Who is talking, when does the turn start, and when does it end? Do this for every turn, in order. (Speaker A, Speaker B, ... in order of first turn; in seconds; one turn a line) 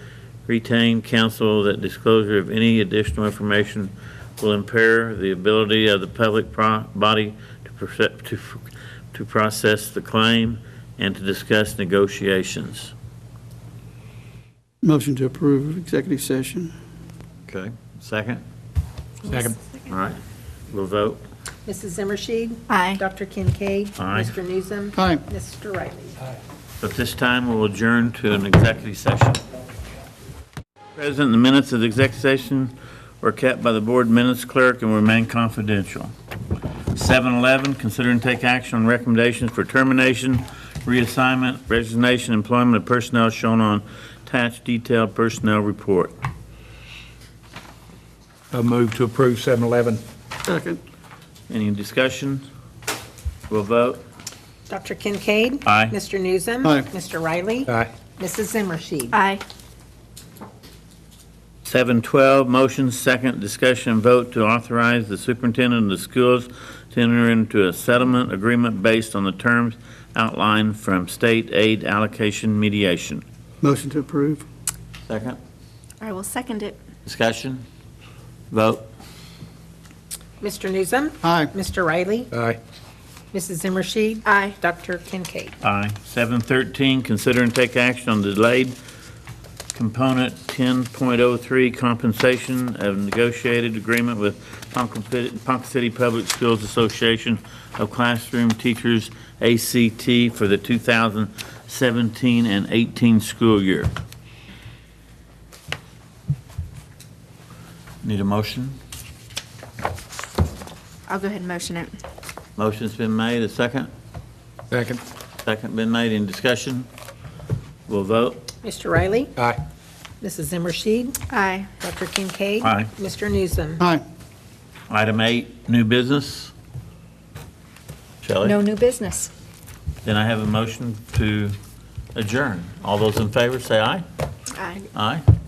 Speaker A: 0.5-12.9
Speaker B: 14.8-16.7
Speaker A: 17.5-18.4
Speaker C: 19.2-19.6
Speaker A: 19.9-20.2
Speaker A: 20.7-21.2
Speaker D: 21.6-26.2
Speaker E: 22.7-23.0
Speaker A: 24.0-24.3
Speaker B: 24.9-25.2
Speaker A: 26.8-29.4
Speaker A: 30.9-36.1
Speaker A: 36.9-46.1
Speaker C: 48.5-50.0
Speaker B: 50.5-50.8
Speaker A: 51.5-52.4
Speaker A: 53.5-54.0
Speaker D: 54.7-59.1
Speaker A: 55.6-56.0
Speaker C: 57.7-57.9
Speaker E: 59.1-59.4
Speaker A: 61.6-73.2
Speaker B: 73.6-74.4
Speaker A: 75.1-75.4
Speaker E: 76.0-76.8
Speaker A: 77.0-77.6
Speaker A: 78.5-78.8
Speaker D: 80.4-82.3
Speaker B: 81.2-81.5
Speaker C: 82.3-82.6
Speaker D: 83.3-85.5
Speaker E: 84.2-84.5
Speaker A: 85.6-88.7
Speaker A: 89.7-103.9
Speaker A: 108.0-108.8
Speaker E: 111.1-111.9
Speaker A: 112.6-113.9
Speaker C: 114.7-115.0
Speaker A: 115.4-116.9
Speaker A: 117.9-118.4
Speaker D: 118.6-119.3
Speaker D: 120.2-121.2
Speaker E: 121.3-121.7
Speaker D: 121.8-123.8
Speaker A: 122.6-122.9
Speaker A: 124.9-126.5
Speaker A: 128.2-128.6
Speaker E: 128.4-129.3
Speaker A: 130.0-131.6
Speaker A: 132.1-134.0
Speaker E: 134.5-134.8
Speaker A: 134.9-135.2